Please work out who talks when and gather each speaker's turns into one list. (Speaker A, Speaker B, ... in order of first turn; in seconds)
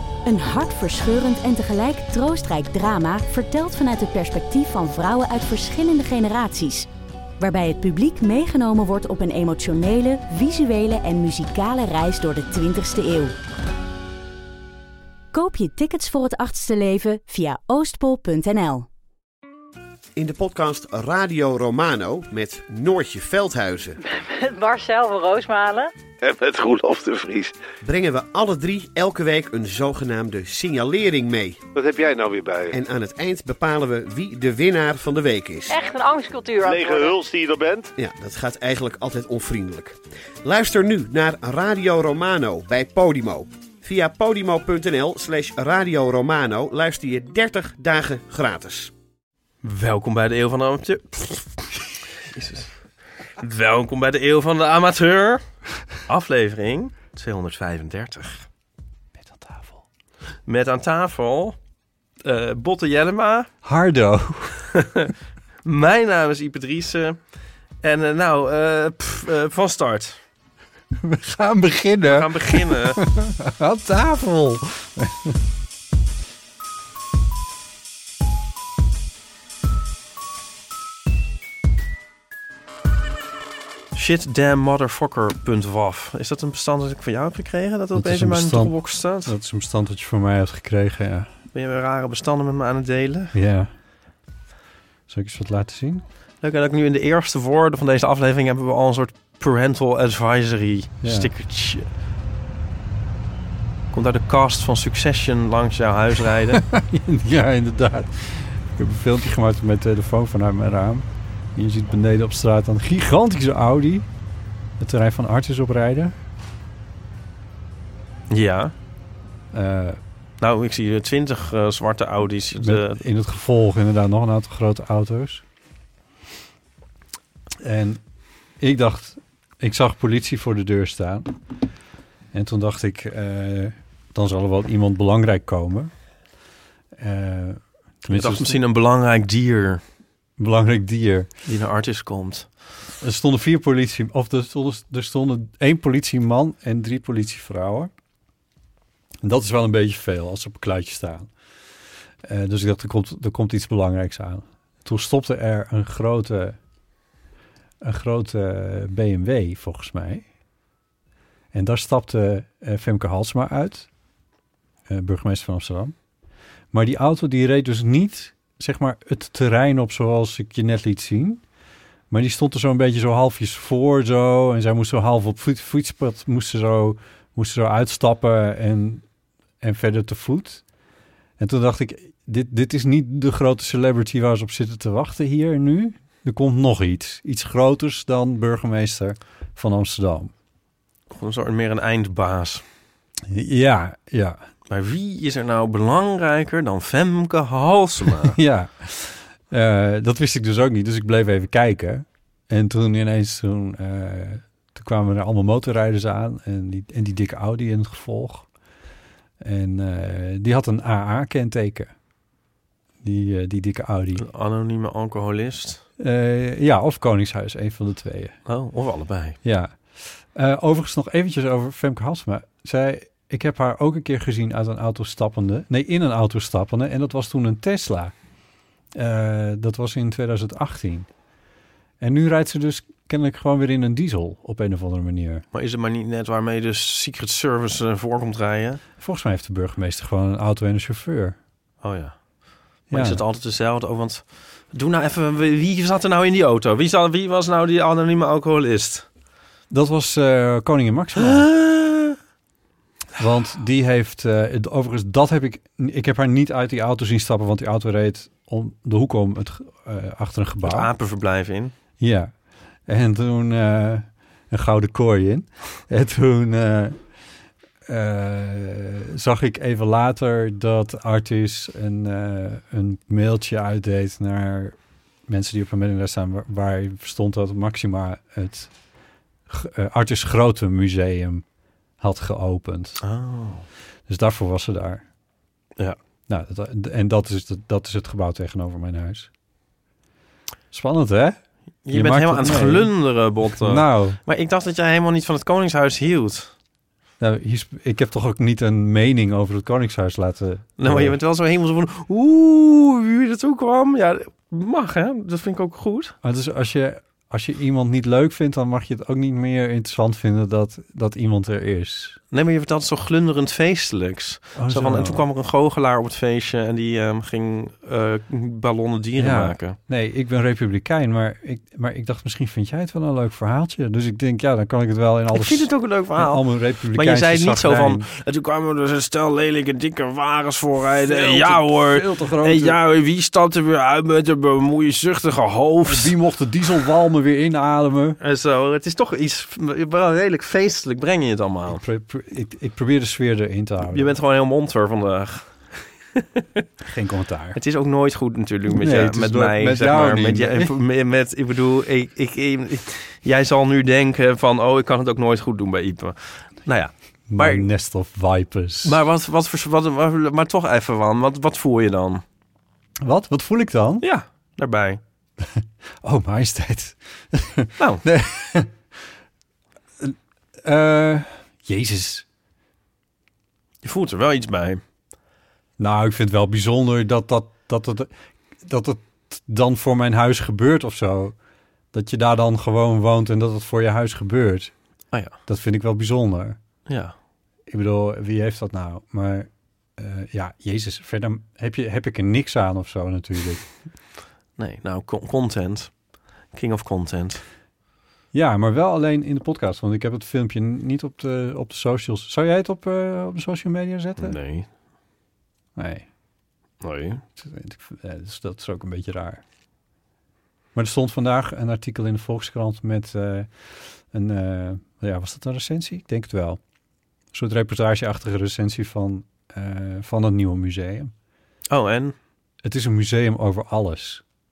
Speaker A: 0.2-6.9, 7.4-13.3, 15.3-18.9
Speaker B: 20.1-24.0, 27.8-31.6, 32.7-35.8, 38.0-48.9
Speaker C: 24.0-25.9, 35.7-37.2
Speaker D: 26.2-27.5, 31.7-32.8, 36.6-37.9
Speaker E: 49.6-52.7, 53.4-55.4, 56.0-58.4, 60.5-61.5, 62.2-63.5, 64.7-65.1, 65.6-67.2, 67.8-70.2, 72.0-73.0, 83.9-89.3, 91.5-93.3, 96.4-101.8, 103.9-106.7, 118.3-118.7, 120.4-123.0, 138.1-139.8, 141.4-142.5, 191.1-192.6, 194.7-198.4, 214.2-215.8, 218.4-219.4, 235.5-238.8, 241.8-242.2, 242.9-249.1, 251.2-252.2, 260.6-261.7, 283.0-283.6, 291.8-296.5, 300.8-306.1, 312.3-319.8, 325.3-336.1, 338.2-341.8, 343.9-346.6, 347.5-357.7, 358.8-362.2, 364.0-365.0, 367.8-368.0, 373.8-374.8, 386.9-387.1, 394.6-395.9, 396.5-397.4, 404.2-404.6, 406.8-407.2, 421.7-422.1
Speaker F: 59.2-59.8, 63.6-64.6, 71.0-75.4, 87.9-91.3, 93.3-93.7, 95.1-96.0, 101.0-101.3, 106.5-114.1, 114.8-116.2, 119.5-120.0, 122.6-125.4, 127.6-128.0, 128.6-131.3, 132.3-135.9, 137.0-138.6, 140.4-141.3, 143.0-147.9, 149.2-151.3, 152.2-156.6, 157.8-160.2, 161.5-163.9, 164.9-165.9, 166.7-171.4, 172.1-179.0, 179.6-180.6, 181.4-190.3, 193.3-194.4, 198.2-208.5, 209.4-211.9, 213.0-214.2, 216.0-218.4, 219.4-228.1, 228.9-231.1, 232.0-235.4, 239.0-241.4, 242.9-243.2, 249.7-251.4, 253.2-260.9, 262.0-262.3, 262.9-267.0, 267.9-278.7, 279.5-281.4, 282.0-283.0, 284.1-285.0, 286.3-289.3, 290.7-292.9, 293.5-294.2, 297.2-301.2, 306.2-312.2, 314.6-315.2, 319.2-328.1, 330.9-332.8, 335.8-338.2, 341.7-344.1, 346.8-347.6, 348.7-350.7, 357.3-359.0, 363.0-364.0, 365.6-368.8, 370.0-372.2, 375.8-378.1, 378.6-381.3, 381.9-384.7, 385.5-386.6, 387.7-393.6, 398.3-404.4, 405.8-406.1, 407.4-409.4, 410.7-416.6, 417.3-421.1, 422.6-424.2